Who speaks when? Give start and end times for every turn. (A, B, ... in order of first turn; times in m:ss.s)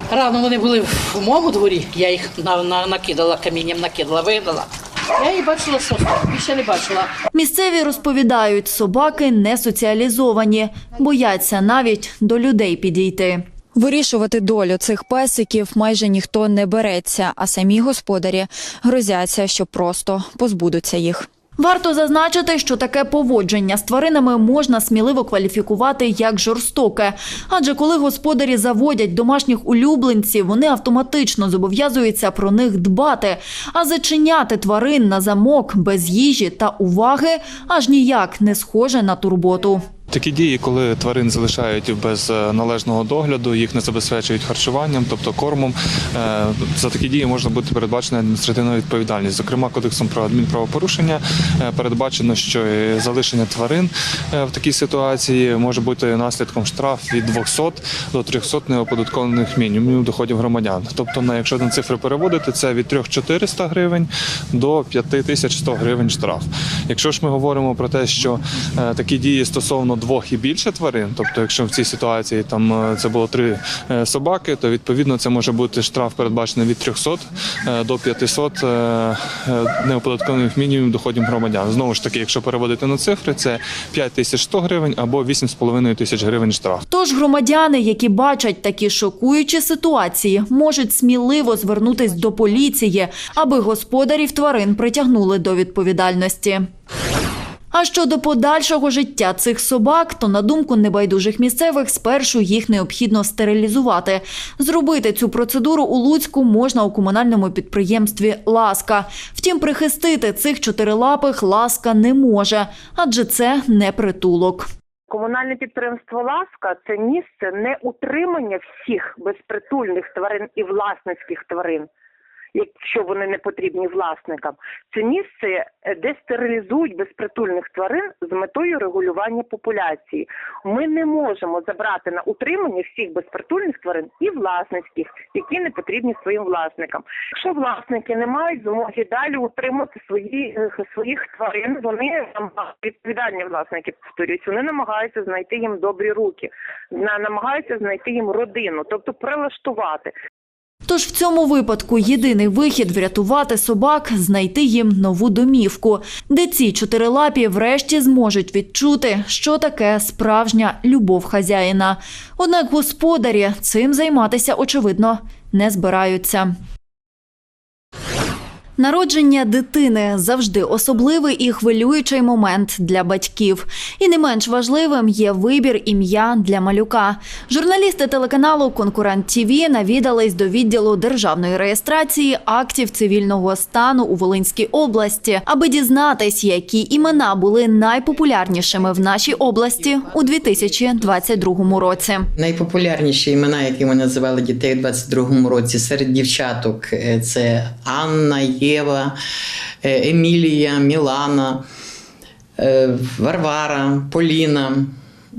0:00.1-0:07.1 A
0:07.3-0:13.4 B
0:13.7-0:21.3 C
0:21.6-0:39.9 B
0:40.1-1:26.8 D
1:26.9-1:36.7 B
1:37.7-1:54.7 B
1:55.1-2:01.9 E
2:02.5-2:30.1 E
2:30.9-2:46.5 B
2:48.8-3:12.3 B
3:12.4-3:19.2 F
3:19.8-3:21.6 F
3:22.6-3:25.0 F